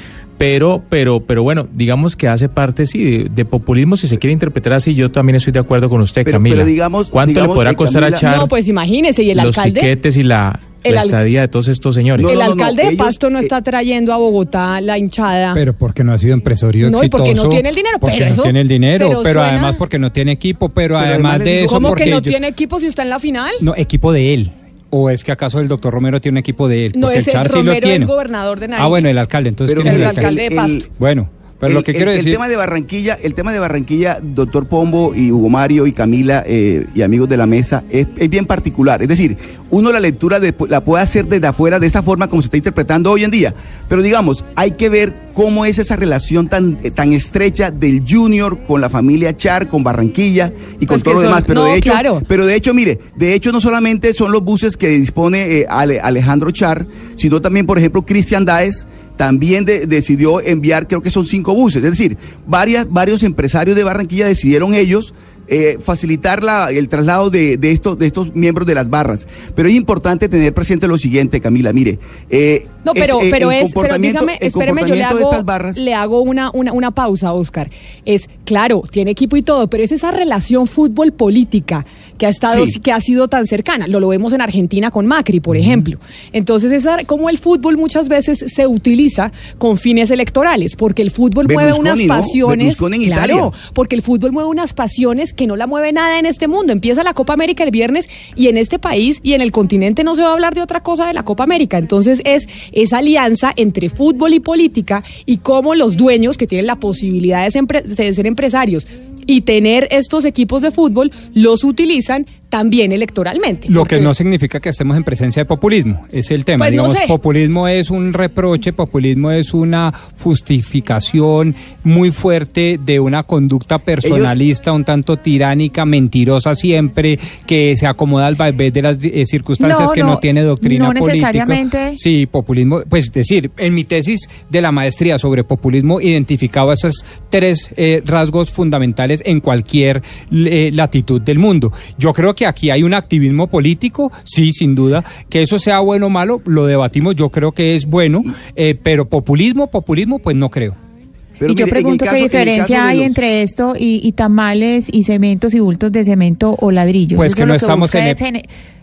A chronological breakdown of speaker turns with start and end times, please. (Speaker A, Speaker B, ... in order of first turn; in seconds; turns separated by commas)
Speaker A: 0.4-8.5, Speaker B: 6.2-8.2, Speaker C: 8.2-9.9, Speaker A: 9.3-12.3, Speaker C: 10.8-11.2, Speaker B: 12.1-13.5, Speaker C: 12.2-15.6, Speaker D: 15.5-22.4, Speaker C: 16.8-19.8, Speaker B: 21.0-22.2, Speaker C: 21.6-23.6, Speaker D: 23.6-28.1, Speaker C: 26.9-29.1, Speaker D: 28.8-30.4, Speaker B: 29.6-30.9, Speaker C: 29.8-30.9, Speaker D: 31.0-32.4, Speaker B: 31.6-75.8, Speaker C: 50.9-52.2, Speaker C: 72.8-114.1, Speaker B: 82.5-82.8, Speaker B: 91.4-93.5, Speaker D: 113.7-150.8, Speaker C: 116.6-117.1, Speaker B: 124.0-124.3, Speaker E: 129.6-132.0, Speaker B: 151.4-153.1, Speaker E: 151.5-158.5, Speaker D: 157.1-158.2